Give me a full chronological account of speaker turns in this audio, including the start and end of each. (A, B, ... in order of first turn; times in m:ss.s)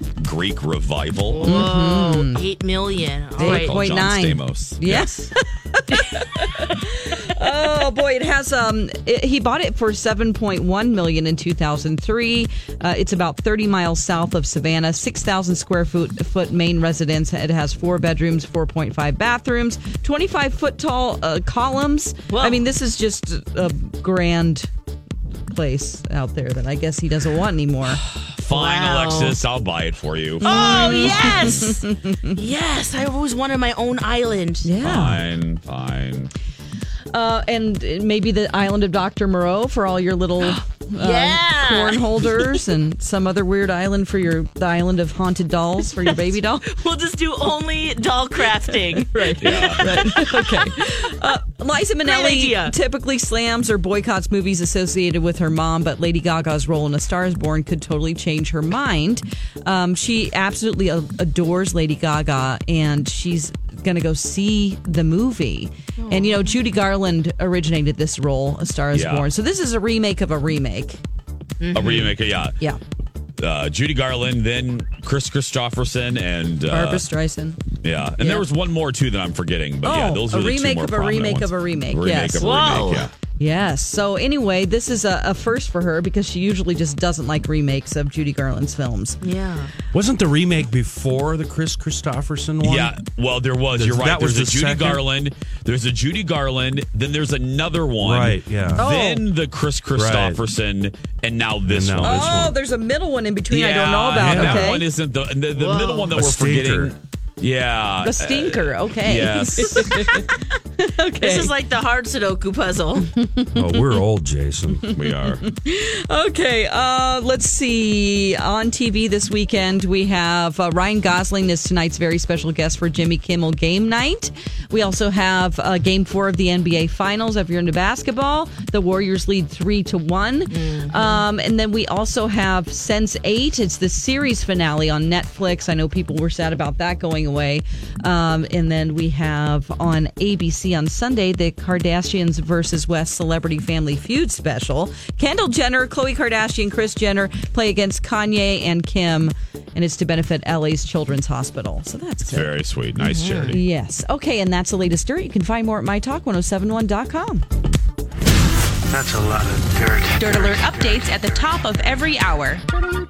0:00.2-0:01.7 A
0:01.3-0:03.9 B
0:01.4-0:02.4 C
0:03.4-0:24.7 C
0:03.4-0:05.2 A
0:22.3-0:22.6 B
0:25.5-0:28.0 C
0:28.4-0:31.2 A
0:28.5-0:29.4 B
0:30.4-0:32.4 C
0:30.4-0:34.7 B
0:34.6-0:35.2 C
0:34.8-0:36.3 A
0:37.1-0:46.7 C
0:40.4-0:42.6 B
0:46.0-0:50.4 B
0:49.1-1:11.0 C
0:49.4-0:49.8 A
0:52.0-0:52.7 B
1:06.0-1:06.5 B
1:08.9-1:09.3 A
1:11.6-1:12.2 B
1:11.7-1:12.6 A
1:13.4-1:17.1 A
1:16.7-1:17.6 C
1:17.8-1:23.1 A
1:18.2-1:18.4 C
1:19.8-1:22.8 C
1:22.4-1:23.1 B
1:23.4-1:29.2 C
1:29.2-1:29.7 B
1:29.9-1:32.9 D
1:32.6-1:42.4 A
1:33.7-1:35.0 D
1:38.0-1:38.9 D
1:38.8-1:39.2 C
1:40.0-1:40.4 D
1:41.7-1:42.6 D
1:42.0-1:44.8 C
1:43.5-1:50.2 A
1:44.2-1:44.7 D
1:45.5-1:46.1 B
1:46.1-1:46.9 D
1:48.0-1:51.5 C
1:51.2-1:53.1 B
1:53.2-1:53.9 C
1:53.5-1:54.9 D
1:54.7-2:32.5 C
1:54.9-1:55.4 A
2:10.5-2:11.2 B
2:32.2-2:33.6 A
2:33.0-2:33.6 B
2:33.5-2:37.4 C
2:38.9-2:41.6 E
2:40.2-2:42.7 F